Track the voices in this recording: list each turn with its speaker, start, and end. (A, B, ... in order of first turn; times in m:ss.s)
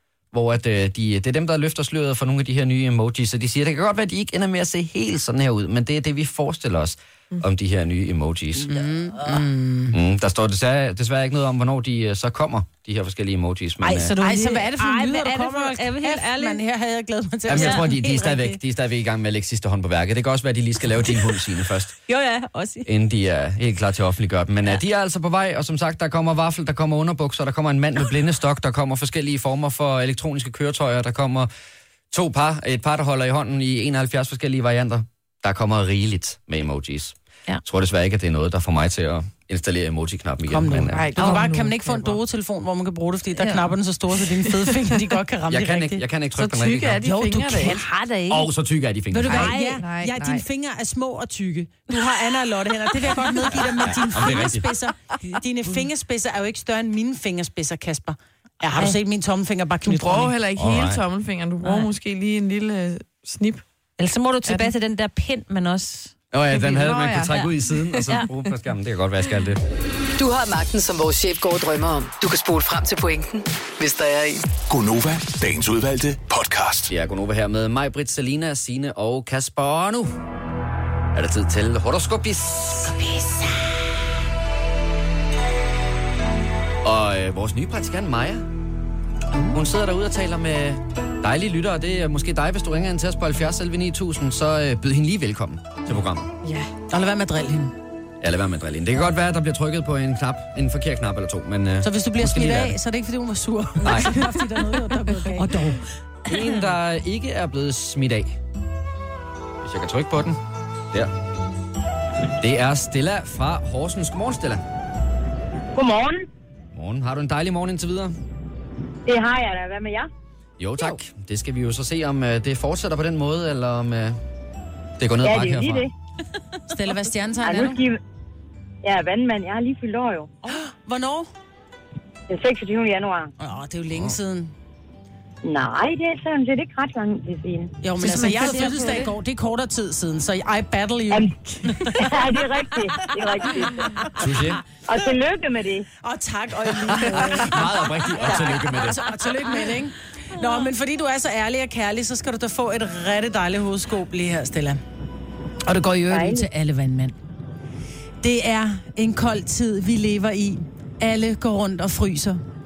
0:00.3-0:08.8 A
0:08.6-0:10.0 B
0:09.9-0:14.1 A
0:13.8-0:16.6 C
0:14.2-0:18.6 B
0:17.5-0:21.9 A
0:17.5-0:17.9 C
0:22.1-0:22.9 C
0:22.8-0:31.5 A
0:32.1-0:41.1 A
0:40.5-0:46.0 B
0:40.9-0:42.1 D
0:41.2-0:41.5 C
0:43.4-0:43.7 C
0:44.6-0:44.9 D
0:45.5-0:47.0 A
0:46.4-0:47.8 D
0:47.0-0:47.8 B
0:47.5-0:48.5 C
0:48.3-0:49.5 A
0:49.1-1:00.3 B
0:49.3-0:50.4 D
0:49.3-0:49.8 C
0:53.8-0:54.7 A
0:59.8-1:03.6 D
1:00.6-1:01.0 A
1:01.6-1:01.9 C
1:04.0-1:06.1 C
1:06.3-1:09.6 A
1:06.5-1:08.2 D
1:10.2-1:14.5 E
1:14.7-1:16.9 F
1:16.9-1:20.1 A
1:21.1-1:23.0 A
1:26.8-1:28.5 A
1:29.5-1:36.3 A
1:36.4-1:36.7 D
1:36.9-1:37.7 B
1:38.2-1:42.8 A
1:41.8-1:45.8 B
1:43.8-1:44.2 A
1:46.2-1:48.3 A
1:49.6-1:50.4 A
1:52.4-1:54.6 A
1:55.7-1:56.2 G
1:56.7-1:58.2 A
1:59.0-2:00.1 G
2:00.6-2:04.2 A
2:05.0-2:05.9 A
2:05.2-2:05.9 G
2:06.7-2:07.8 B
2:07.4-2:08.0 G
2:08.8-2:10.3 G
2:10.4-2:11.3 B
2:12.3-2:13.3 G
2:13.4-2:14.5 B
2:15.4-2:17.7 G
2:17.8-2:22.1 B
2:18.0-2:19.1 C
2:21.8-2:23.9 G
2:24.2-2:24.6 A
2:24.8-2:25.9 G
2:26.0-2:34.8 B
2:27.1-2:29.0 A
2:35.6-2:37.1 B
2:36.1-2:36.4 G
2:38.2-2:42.4 B